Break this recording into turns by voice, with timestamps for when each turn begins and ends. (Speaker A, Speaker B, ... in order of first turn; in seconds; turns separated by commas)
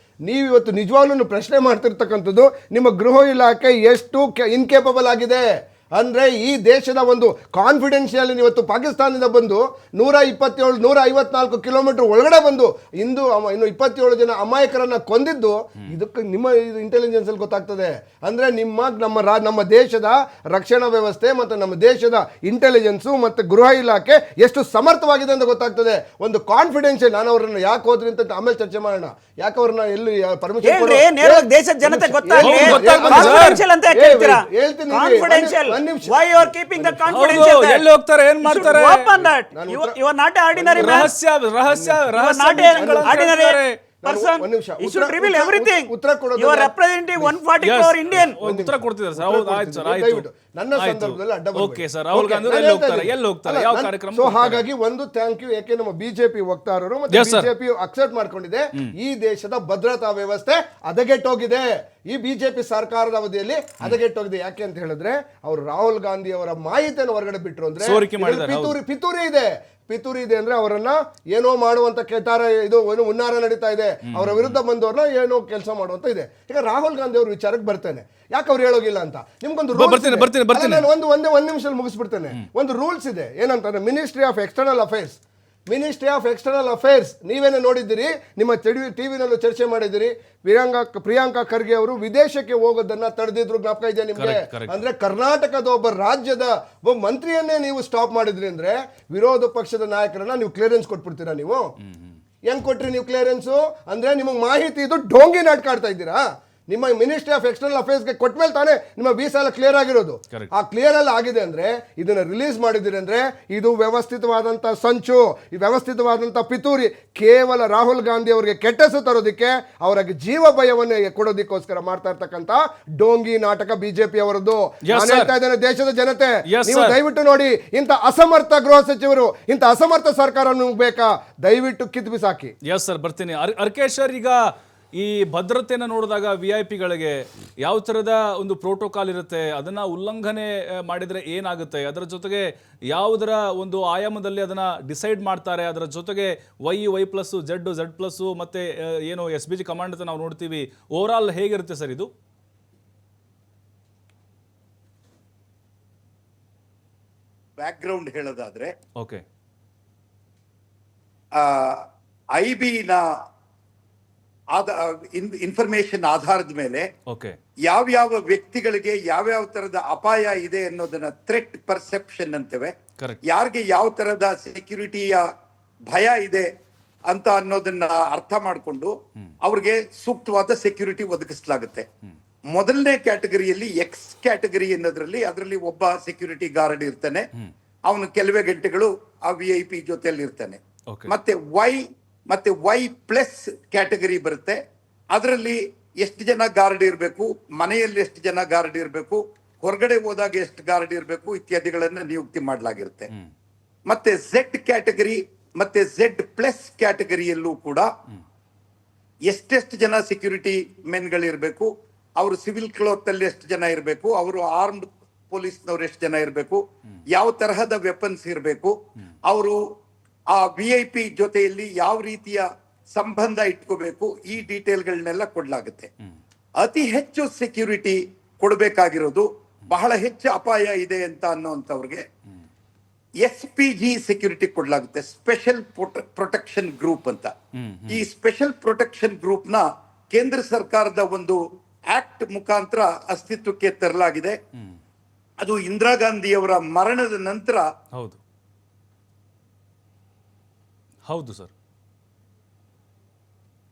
Speaker A: 0.2-37.5, Speaker B: 30.6-37.9, Speaker C: 32.4-33.6, Speaker C: 37.1-39.1, Speaker B: 38.4-41.1, Speaker A: 39.1-40.0, Speaker A: 40.5-41.1, Speaker C: 40.8-43.8, Speaker A: 41.7-43.3, Speaker B: 42.1-48.4, Speaker A: 44.0-47.4, Speaker C: 47.6-50.2, Speaker A: 48.4-101.7, Speaker C: 50.8-54.6, Speaker C: 57.1-57.5, Speaker C: 67.8-68.8, Speaker C: 74.1-74.6, Speaker C: 79.7-80.9, Speaker C: 94.2-94.8, Speaker C: 101.8-102.2, Speaker A: 102.5-132.5, Speaker C: 124.9-125.3, Speaker C: 126.5-127.0, Speaker C: 132.7-134.4, Speaker C: 135.0-152.1, Speaker D: 157.6-158.8, Speaker D: 161.4-161.8, Speaker D: 162.3-163.0, Speaker D: 164.6-166.9, Speaker C: 167.1-167.3, Speaker D: 167.7-172.7, Speaker D: 173.3-175.2, Speaker D: 175.9-176.5, Speaker D: 177.1-181.9, Speaker D: 182.5-187.3, Speaker D: 187.9-194.6, Speaker D: 195.1-203.1, Speaker D: 203.9-207.9, Speaker D: 209.3-218.8, Speaker D: 219.3-219.6, Speaker D: 220.3-225.9, Speaker D: 226.6-232.0, Speaker D: 233.2-237.3, Speaker C: 237.6-238.0, Speaker D: 237.9-241.4, Speaker D: 241.9-244.4, Speaker D: 245.4-247.7, Speaker C: 251.1-251.5